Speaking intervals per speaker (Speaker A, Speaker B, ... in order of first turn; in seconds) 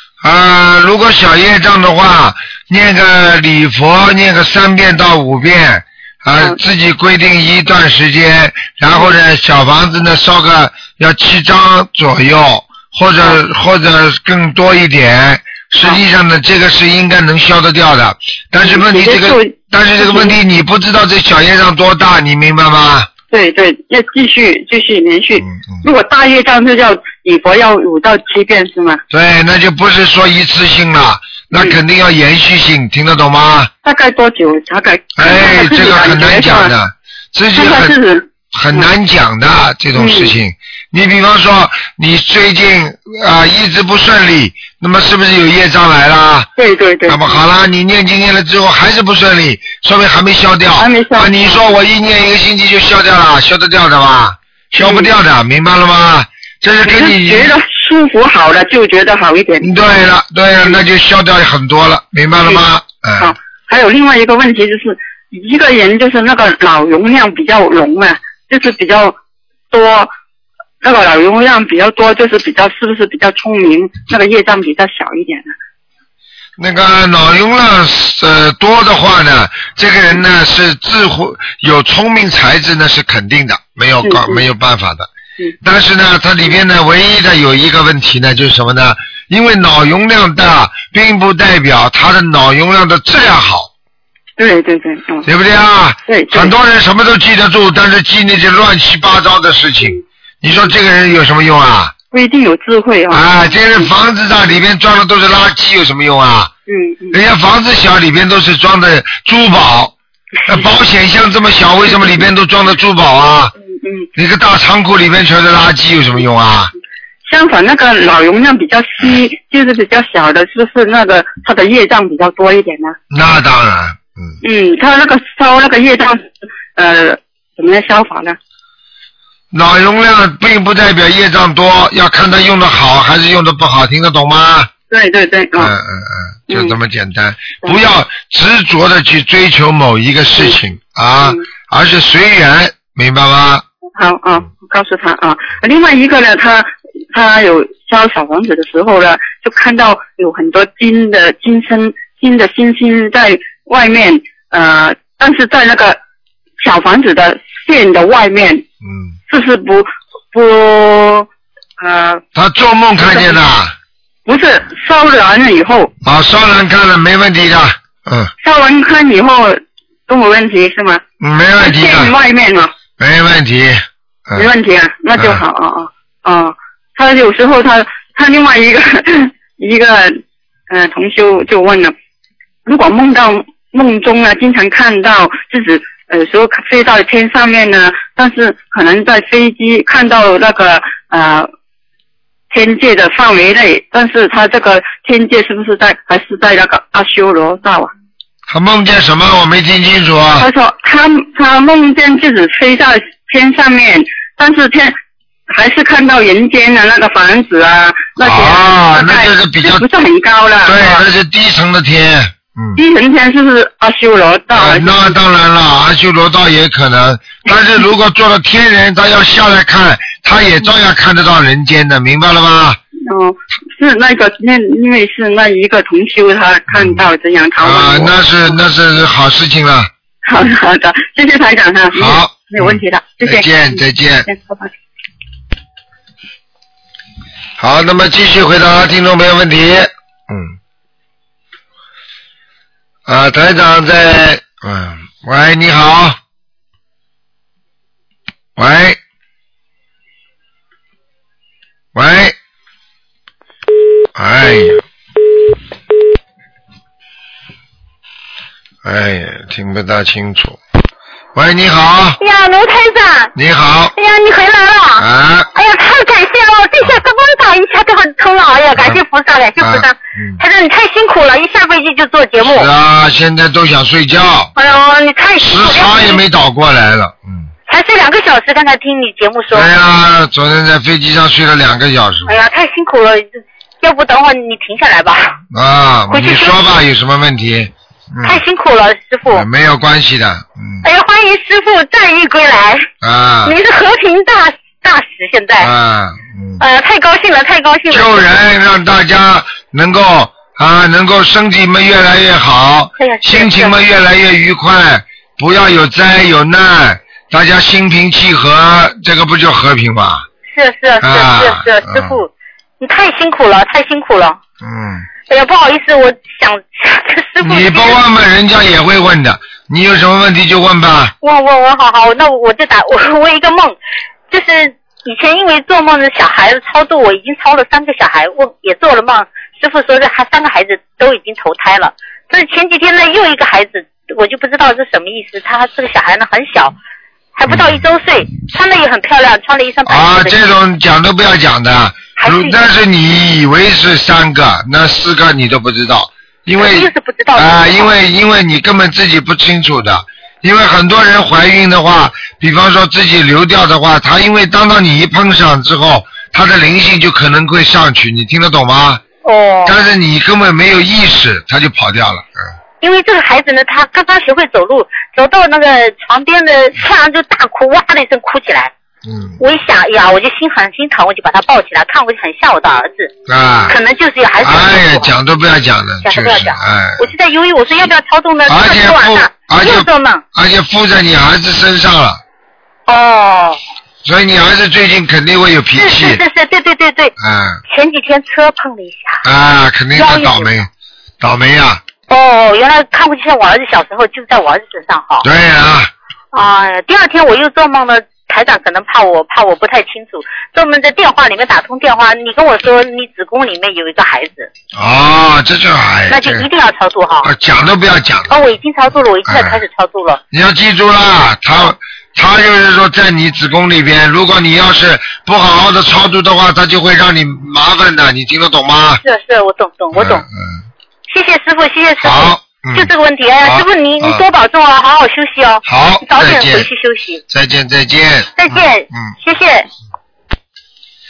Speaker A: 0.2-23.1, 25.4-25.8, 29.1-33.7, 35.2-38.0, 38.5-46.5, 47.1-57.5, 59.6-63.3, 76.6-85.1, 85.6-93.7, 95.3-101.9, 103.1-106.5, 107.1-109.9, 110.5-113.5, 114.2-116.7, 123.1-124.4, 129.5-134.7, 135.6-143.6, 158.8-159.2, 162.3-163.8, 166.0-168.3, 171.2-172.1, 173.0-174.5, 175.2-175.4, 198.5-200.5, 208.2-209.8, 210.6-212.8, 214.5-222.8, 226.7-227.1, 227.6-229.9, 231.9-234.3, 237.6-240.6, 243.1-246.2, 248.6-249.0, 251.9-252.3, 254.2-254.8, 258.8-260.6, 261.4-262.2, 263.4-263.9, 265.0-265.5, 269.6-270.4, 272.4-274.5, 275.4-277.5, 279.5-282.4, 285.5-288.4, 289.3-290.8, 293.0-293.6, 295.6-296.6, 297.9-310.3, 311.0-312.2, 314.6-315.1, 317.4-321.1, 337.5-337.9, 339.9-359.0, 359.7-362.3, 369.1-369.4, 373.3-373.8, 374.4-377.1, 378.5-382.2, 384.0-386.2, 387.2-387.6, 389.2-390.7, 391.2-391.8, 395.2-395.9, 404.8-406.5, 407.2-408.3, 409.3-409.6, 410.3-419.0, 419.9-420.6, 422.0-422.9, 423.4-424.2, 425.7-426.7, 427.3-429.1
Speaker B: 18.6-20.4, 23.3-29.0, 33.8-36.7, 37.6-38.9, 40.0-40.3, 46.6-47.4, 50.8-51.6, 54.8-55.1, 56.8-59.7, 63.2-69.2, 69.7-70.1, 70.8-75.5, 84.0-84.4, 94.4-95.3, 96.1-96.5, 102.1-103.2, 106.7-107.2, 111.9-112.2, 113.7-114.1, 117.2-123.0, 124.4-128.4, 134.9-135.7, 136.5-136.8, 144.0-156.0, 156.6-158.7, 159.3-162.2, 163.1-163.4, 164.3-165.9, 168.4-171.0, 171.6-172.7, 174.3-181.9, 182.7-191.5, 192.5-197.9, 200.4-205.0, 205.5-211.0, 212.8-215.2, 223.1-228.1, 230.2-234.7
Speaker C: 262.2-263.3, 264.0-272.7, 274.6-276.2, 277.7-279.7, 282.3-285.4, 286.1-286.6, 288.2-289.5, 290.8-292.9, 293.4-295.7, 296.6-298.3, 303.0-303.8, 310.5-314.4, 315.3-318.0, 321.2-323.8, 324.3-336.8, 337.4-340.5, 342.2-342.6, 346.6-347.9, 359.2-359.8, 362.8-368.7, 369.4-373.1, 373.7-375.1, 376.0-380.2, 382.9-383.6, 385.8-387.1, 387.7-389.2, 389.9-390.7, 392.1-395.3, 396.3-404.5, 406.1-407.3, 408.3-410.2, 419.0-420.2, 421.1-427.2, 428.4-429.7